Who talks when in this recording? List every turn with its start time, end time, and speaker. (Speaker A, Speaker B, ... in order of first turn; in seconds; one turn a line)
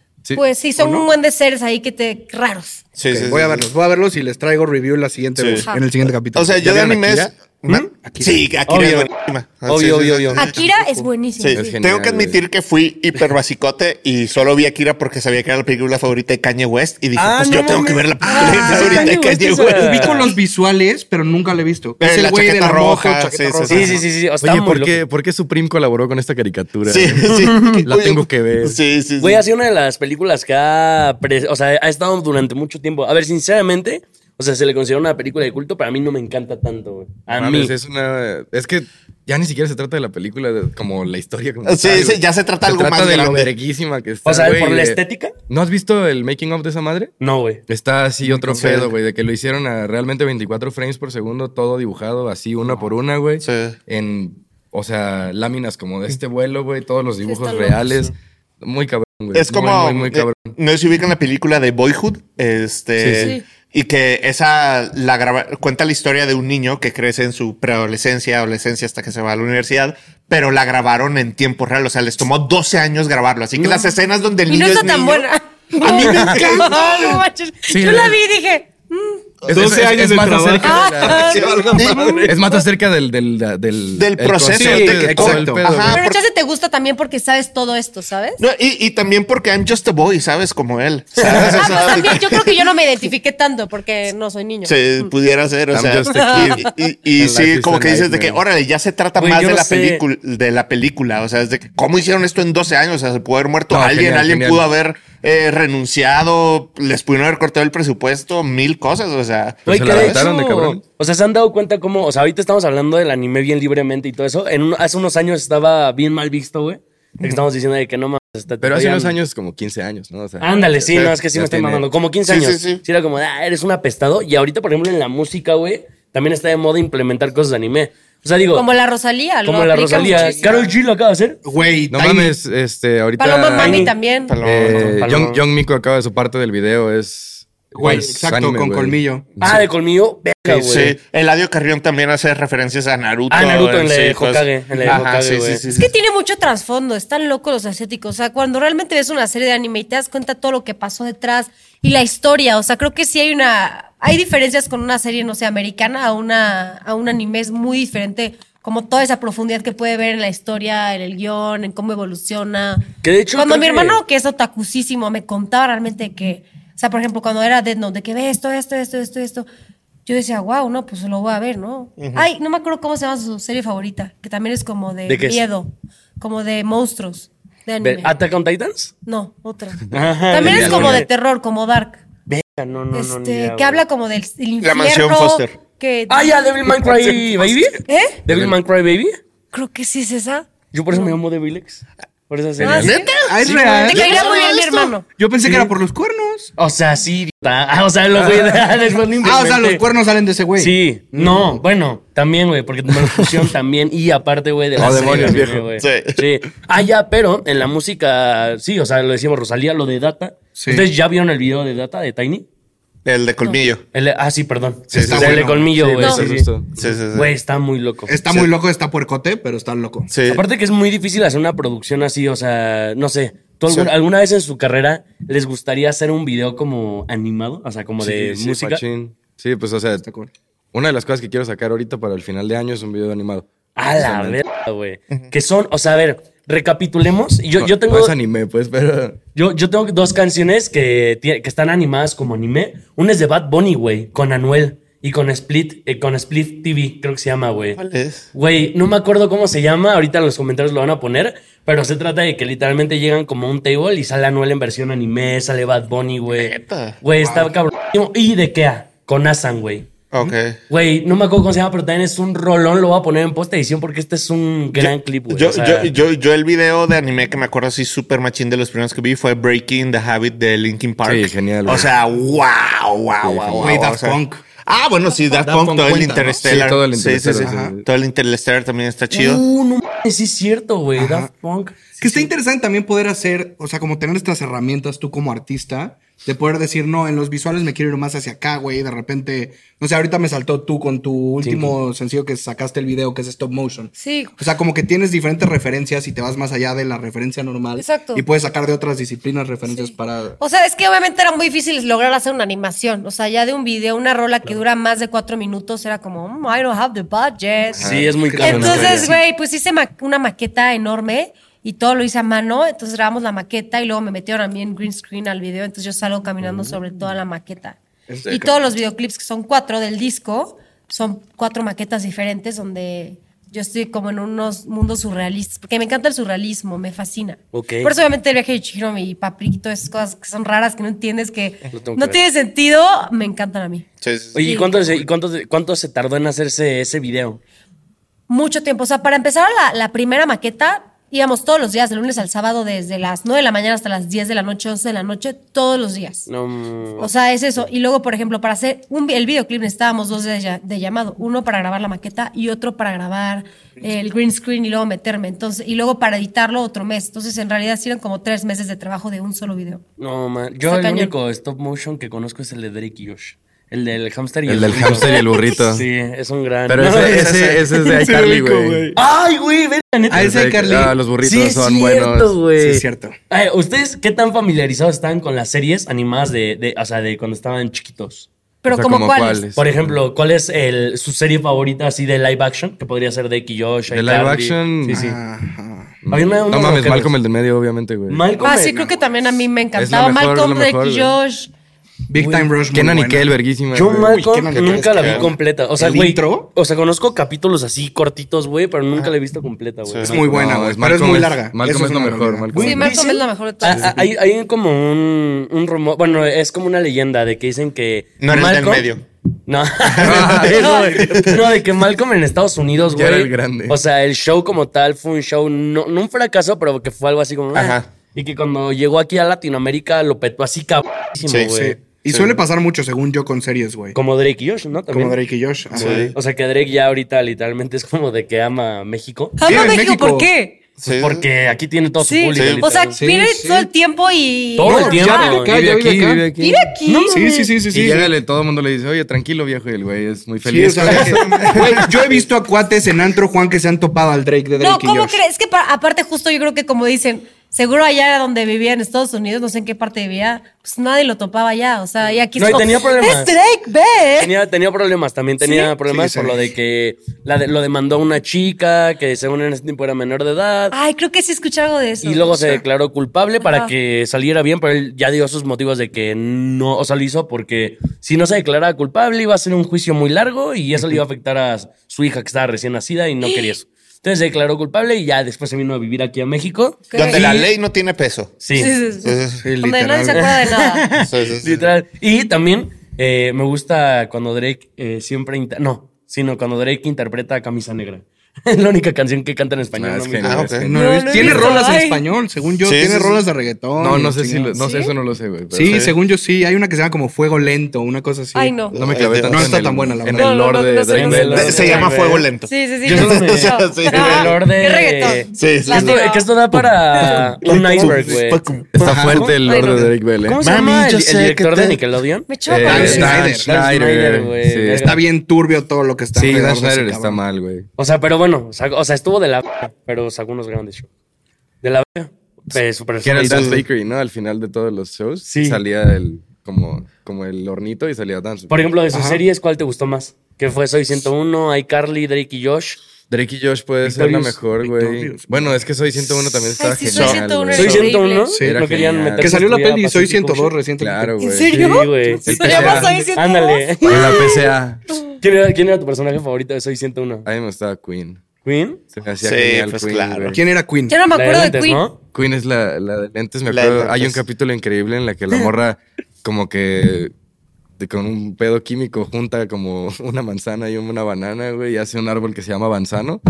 Speaker A: 0.3-2.8
Speaker B: 0.8-1.1
Speaker C: 3.0-3.7
Speaker B: 3.1-7.3
Speaker C: 5.4-5.7
Speaker A: 5.6-5.9
Speaker C: 6.3-10.7
Speaker B: 8.0-8.4
Speaker D: 8.7-9.1
Speaker D: 9.6-10.5
Speaker A: 10.4-11.8
Speaker B: 10.7-11.1
Speaker C: 11.4-20.3
Speaker E: 11.5-12.4
Speaker D: 17.1-20.3
Speaker A: 18.2-19.2
Speaker B: 19.7-24.0
Speaker C: 22.0-24.0
Speaker D: 23.7-25.0
Speaker E: 24.4-28.8
Speaker C: 26.9-29.4
Speaker D: 27.3-27.9
Speaker D: 29.2-37.7
Speaker E: 37.3-47.1
Speaker C: 41.7-43.5
Speaker D: 44.2-45.3
Speaker D: 47.2-47.6
Speaker E: 47.7-60.6
Speaker B: 48.2-48.7
Speaker C: 48.6-48.9
Speaker C: 53.4-53.8
Speaker A: 57.2-58.1
Speaker C: 59.3-75.3
Speaker E: 63.0-63.4
Speaker A: 63.2-63.4
Speaker A: 74.5-79.2
Speaker B: 75.7-78.1
Speaker C: 75.9-76.6
Speaker D: 76.1-76.3
Speaker E: 77.7-78.2
Speaker E: 79.5-81.5
Speaker B: 79.5-82.3
Speaker A: 80.6-82.6
Speaker C: 81.3-82.3
Speaker E: 82.2-86.0
Speaker C: 84.0-86.2
Speaker B: 84.5-85.7
Speaker A: 85.8-88.4
Speaker C: 88.4-92.5
Speaker E: 91.2-91.8
Speaker A: 91.2-95.1
Speaker C: 94.7-110.2
Speaker E: 95.7-98.4
Speaker A: 96.0-96.6
Speaker D: 99.2-100.0
Speaker E: 103.7-104.6
Speaker E: 109.7-110.8
Speaker D: 109.7-119.2
Speaker E: 118.6-121.9
Speaker D: 120.4-128.7
Speaker C: 122.3-122.8
Speaker A: 128.5-130.7
Speaker D: 129.4-131.4
Speaker B: 131.4-132.4
Speaker E: 131.9-139.7
Speaker A: 133.2-134.3
Speaker C: 133.6-135.4
Speaker D: 135.0-135.4
Speaker B: 137.7-139.3
Speaker D: 139.4-141.0
Speaker C: 140.5-145.9
Speaker D: 143.3-145.6
Speaker A: 145.7-169.5
Speaker D: 163.0-164.0
Speaker A: 170.1-178.2
Speaker C: 172.0-172.3
Speaker D: 175.1-175.4
Speaker D: 177.8-178.9
Speaker A: 179.1-182.0
Speaker D: 179.9-181.1
Speaker E: 180.4-181.1
Speaker D: 182.3-183.8
Speaker A: 182.9-187.1
Speaker C: 184.6-185.6
Speaker D: 186.1-189.2
Speaker A: 187.9-188.2
Speaker E: 188.3-188.6
Speaker A: 189.5-191.2
Speaker D: 190.7-193.0
Speaker C: 192.6-194.9
Speaker A: 192.6-195.1
Speaker B: 193.2-194.4
Speaker B: 195.1-196.5
Speaker D: 196.6-199.8
Speaker E: 198.2-198.6
Speaker B: 199.2-201.6
Speaker D: 200.6-212.5
Speaker E: 204.8-205.7
Speaker B: 204.8-205.4
Speaker C: 205.8-206.2
Speaker B: 210.6-210.9
Speaker C: 213.1-213.8
Speaker D: 213.9-216.5
Speaker B: 214.9-215.7
Speaker C: 214.9-215.5
Speaker E: 215.2-217.0
Speaker A: 216.0-216.2
Speaker C: 216.8-217.3
Speaker D: 217.1-218.1
Speaker B: 218.1-220.1
Speaker C: 220.1-220.4
Speaker D: 220.2-228.8
Speaker E: 228.0-230.1
Speaker B: 230.0-230.3
Speaker E: 230.7-234.4
Speaker D: 233.8-238.1
Speaker E: 237.6-239.2
Speaker D: 239.3-247.8
Speaker C: 247.8-248.2
Speaker D: 248.3-259.9
Speaker C: 256.3-257.5
Speaker C: 260.1-260.6
Speaker D: 260.7-265.9
Speaker C: 264.8-279.4
Speaker E: 271.0-271.9
Speaker E: 273.2-273.8
Speaker B: 273.6-274.4
Speaker B: 275.3-276.4
Speaker E: 276.4-277.9
Speaker B: 277.4-277.8
Speaker D: 279.1-282.3
Speaker B: 281.0-281.3
Speaker B: 282.0-300.4
Speaker D: 291.4-291.8
Speaker A: 294.0-294.4
Speaker A: 297.8-298.2
Speaker A: 299.7-333.9
Speaker E: 307.8-309.1
Speaker D: 307.8-309.1
Speaker B: 308.1-309.1
Speaker B: 318.1-318.6
Speaker D: 327.5-327.9
Speaker D: 331.7-332.2
Speaker C: 334.0-335.1
Speaker D: 334.3-337.4
Speaker A: 334.4-334.8
Speaker A: 338.3-346.3
Speaker D: 346.3-347.1
Speaker A: 347.0-359.8
Speaker D: 360.0-365.1
Speaker A: 360.7-361.1
Speaker E: 364.5-365.9
Speaker A: 364.9-365.6
Speaker D: 365.7-370.3
Speaker E: 366.7-368.9
Speaker C: 366.9-367.6
Speaker B: 370.1-370.9
Speaker E: 370.1-372.4
Speaker D: 371.1-378.3
Speaker B: 372.6-373.1
Speaker A: 378.6-379.4
Speaker E: 378.7-379.9
Speaker D: 379.6-385.2
Speaker E: 383.9-385.1
Speaker B: 384.9-386.0
Speaker E: 386.0-388.2
Speaker D: 386.1-387.1
Speaker D: 388.1-388.8
Speaker A: 388.4-391.5
Speaker B: 388.4-389.0
Speaker E: 389.8-391.2
Speaker B: 392.1-393.3
Speaker D: 392.2-392.5
Speaker E: 392.7-394.2
Speaker D: 393.7-400.2
Speaker B: 393.9-396.5
Speaker C: 394.5-395.3
Speaker C: 399.9-400.2
Speaker B: 400.0-402.7
Speaker E: 400.2-402.9
Speaker A: 402.5-403.9
Speaker D: 402.5-408.9
Speaker C: 408.2-409.0
Speaker D: 409.5-421.8
Speaker E: 410.0-410.8
Speaker C: 410.1-410.4
Speaker A: 410.5-410.9
Speaker C: 410.9-411.4
Speaker E: 412.9-413.8
Speaker C: 417.5-417.9
Speaker C: 421.3-421.5
Speaker B: 421.5-424.0
Speaker C: 422.1-422.4
Speaker D: 423.9-425.2
Speaker B: 424.9-426.1
Speaker D: 425.7-429.7
Speaker C: 425.7-426.1
Speaker A: 429.4-430.6
Speaker B: 429.4-430.3
Speaker C: 430.8-431.2
Speaker D: 430.9-433.0
Speaker A: 432.0-435.4
Speaker C: 432.4-432.7
Speaker B: 432.9-433.7
Speaker D: 434.6-435.6
Speaker B: 434.6-436.3
Speaker E: 434.9-436.7
Speaker A: 436.4-437.3
Speaker D: 436.9-437.6
Speaker B: 437.1-438.1
Speaker E: 437.7-441.9
Speaker B: 440.4-445.2
Speaker C: 440.7-442.1
Speaker A: 444.6-454.3
Speaker D: 452.4-453.4
Speaker D: 454.2-460.8
Speaker A: 455.4-455.7
Speaker B: 455.9-456.4
Speaker A: 460.7-462.6
Speaker D: 462.0-477.5
Speaker A: 463.4-463.7
Speaker A: 473.2-473.6
Speaker A: 476.9-477.3
Speaker C: 476.9-478.4
Speaker D: 478.4-478.8
Speaker A: 478.5-480.9
Speaker C: 479.0-479.5
Speaker B: 479.4-480.3
Speaker D: 480.1-490.5
Speaker C: 481.0-481.7
Speaker E: 489.7-491.6
Speaker C: 490.2-490.7
Speaker B: 490.7-494.6
Speaker A: 490.7-492.0
Speaker C: 492.6-493.2
Speaker E: 493.8-495.9
Speaker A: 494.5-494.9
Speaker B: 495.5-498.7
Speaker C: 495.6-495.9
Speaker A: 498.3-498.8
Speaker C: 498.7-499.6
Speaker E: 498.7-501.8
Speaker B: 499.3-500.4
Speaker A: 500.1-506.3
Speaker D: 500.9-502.3
Speaker C: 501.4-504.4
Speaker D: 502.8-509.4
Speaker C: 505.3-506.1
Speaker A: 506.9-507.2
Speaker C: 507.1-509.3
Speaker B: 507.8-508.2
Speaker E: 508.7-510.4
Speaker A: 509.4-509.9
Speaker D: 510.2-515.0
Speaker C: 510.4-511.8
Speaker A: 512.3-513.2
Speaker E: 512.5-515.0
Speaker B: 512.6-513.5
Speaker B: 514.8-517.2
Speaker E: 516.1-517.7
Speaker D: 517.8-520.9
Speaker D: 521.6-523.6
Speaker E: 523.0-528.6
Speaker C: 523.1-523.6
Speaker D: 525.3-525.6
Speaker D: 528.5-532.8
Speaker B: 528.9-529.2
Speaker E: 533.1-539.6
Speaker D: 533.8-534.4
Speaker B: 534.6-535.6
Speaker A: 536.5-538.4
Speaker C: 536.9-537.2
Speaker D: 537.5-540.5
Speaker B: 538.3-538.6
Speaker B: 539.2-541.7
Speaker E: 540.8-543.1
Speaker A: 541.2-545.1
Speaker D: 541.5-544.4
Speaker B: 542.2-543.1
Speaker E: 543.8-544.8
Speaker D: 545.2-547.2
Speaker E: 547.2-548.2
Speaker D: 548.5-548.8
Speaker E: 548.9-550.4
Speaker C: 549.2-550.4
Speaker B: 550.3-551.0
Speaker A: 550.9-551.8
Speaker D: 551.1-552.0
Speaker E: 552.1-557.1
Speaker C: 553.5-554.2
Speaker E: 557.8-563.2